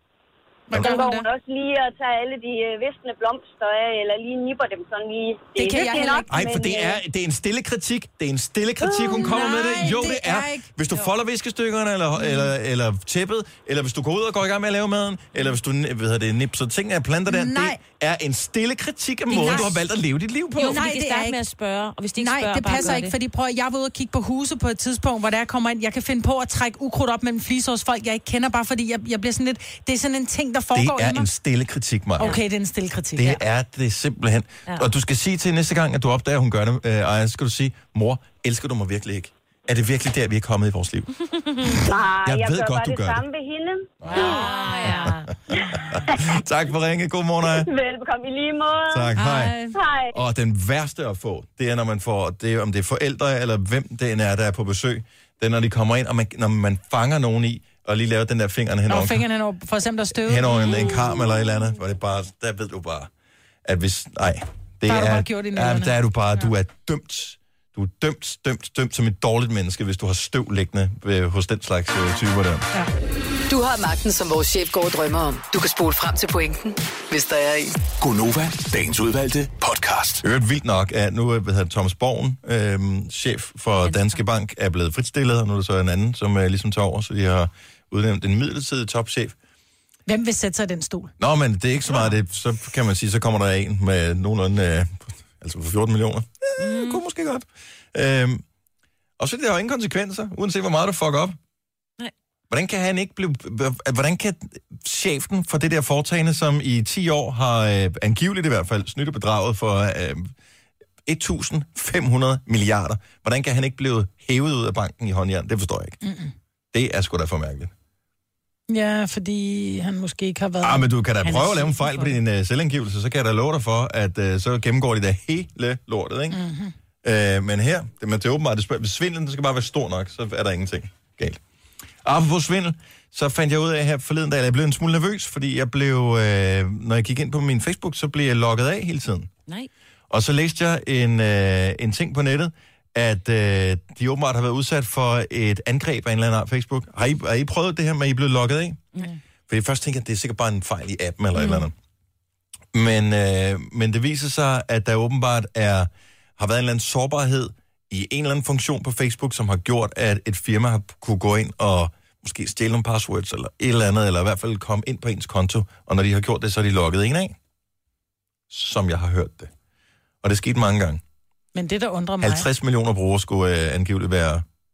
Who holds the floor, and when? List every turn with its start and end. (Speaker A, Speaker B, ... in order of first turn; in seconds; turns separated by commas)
Speaker A: 0.7-1.2, Speaker B: 0.7-7.0, Speaker A: 5.5-6.3, Speaker C: 6.3-20.8, Speaker A: 8.8-10.7, Speaker A: 17.3-17.8, Speaker A: 19.3-19.7, Speaker D: 20.6-23.1, Speaker A: 20.6-21.4, Speaker A: 22.2-31.3, Speaker C: 30.7-32.4, Speaker A: 32.2-33.4, Speaker C: 33.1-41.1, Speaker B: 41.8-44.4, Speaker C: 42.2-43.2, Speaker C: 44.0-47.7, Speaker D: 44.1-45.3, Speaker A: 44.5-44.8, Speaker B: 47.5-49.2, Speaker C: 48.9-49.6, Speaker D: 49.2-49.8, Speaker B: 49.7-50.1, Speaker C: 50.1-59.2, Speaker A: 58.9-60.8, Speaker C: 60.1-63.1, Speaker D: 60.6-61.1, Speaker C: 63.6-72.7, Speaker A: 64.9-65.9, Speaker E: 73.5-77.8, Speaker F: 78.0-80.2, Speaker C: 80.2-89.3, Speaker D: 83.8-84.2, Speaker A: 90.1-91.1, Speaker C: 91.2-98.4, Speaker D: 96.6-97.0, Speaker C: 99.2-101.4, Speaker C: 102.5-110.3, Speaker C: 111.0-116.0, Speaker A: 116.0-116.3, Speaker C: 116.7-117.7, Speaker A: 118.7-122.1, Speaker C: 120.6-126.4, Speaker A: 126.3-126.7, Speaker C: 127.0-131.4, Speaker C: 132.0-139.3, Speaker C: 140.1-148.8, Speaker C: 149.5-151.7, Speaker D: 151.4-151.6, Speaker C: 152.7-167.3, Speaker C: 168.5-169.5, Speaker C: 170.2-171.0, Speaker A: 171.5-172.5, Speaker C: 172.2-174.4